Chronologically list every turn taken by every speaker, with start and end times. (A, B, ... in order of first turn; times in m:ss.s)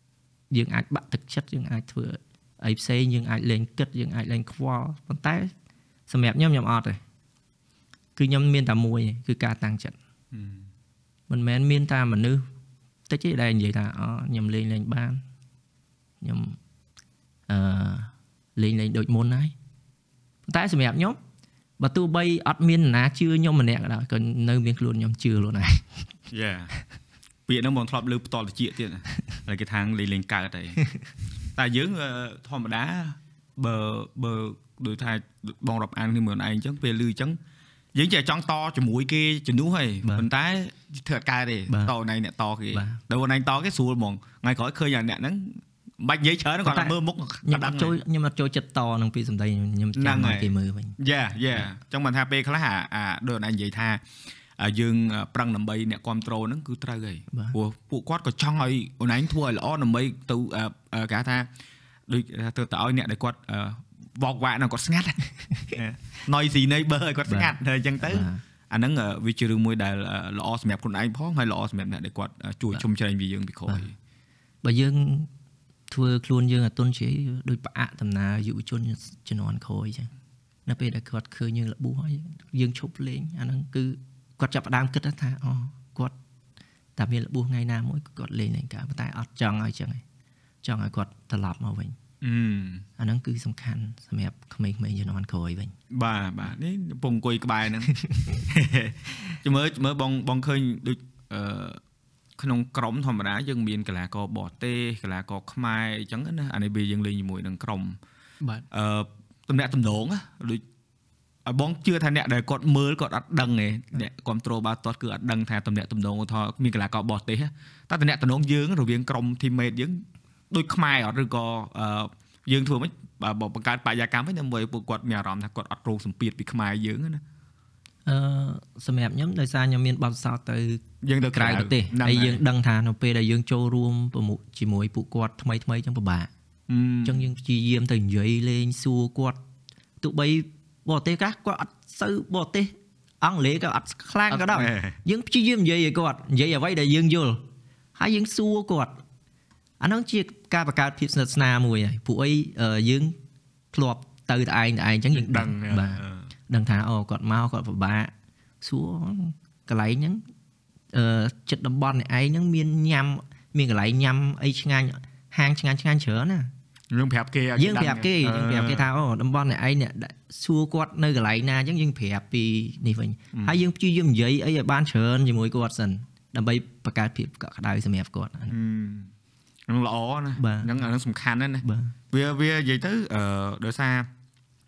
0:00.5-0:05.5 A
0:06.1-0:07.0 A
0:08.2-0:10.0 A
0:10.3-0:10.7 B
0:11.3-0:12.4 A
0:13.1-0:15.2 A
0:16.2-0:16.6 A
0:17.5-0:19.5 A
0:20.5-0:21.2 A
0:21.8-0:26.1 A
0:26.3-0:26.8 B
0:27.5-0:30.8 B
0:31.5-0:37.4 B
0:37.9-0:48.0 B
0:40.0-0:40.3 A
0:41.7-0:41.9 A
0:42.7-0:43.0 A
0:46.6-0:51.0 A
0:49.9-0:54.0 B
0:54.6-1:01.5 B
1:02.1-1:13.9 B
1:05.4-1:05.8 A
1:07.3-1:08.4 A
1:14.6-1:15.3 A
1:15.9-1:20.1 A
1:20.6-1:26.1 A
1:27.0-1:30.0 A
1:30.6-1:32.0 A
1:32.2-1:32.8 B
1:33.0-1:35.7 A
1:35.9-1:41.8 B
1:42.4-1:48.0 B
1:48.7-1:50.6 B
1:51.4-2:07.2 B
2:08.0-2:10.8 A
2:11.0-2:12.4 B
2:11.3-2:16.3 A
2:16.7-2:17.3 B
2:17.0-2:19.4 A
2:20.0-2:27.4 A
2:24.3-2:25.0 B
2:28.0-2:28.9 A
2:29.8-2:33.2 A
2:33.7-2:40.2 A
2:35.1-2:36.3 B
2:40.9-2:46.5 A
2:46.9-2:48.9 B
2:47.6-2:58.5 A
2:53.3-2:53.6 B
2:58.5-2:59.1 B
2:59.7-3:04.1 B
3:00.4-3:00.7 A
3:01.6-3:02.0 A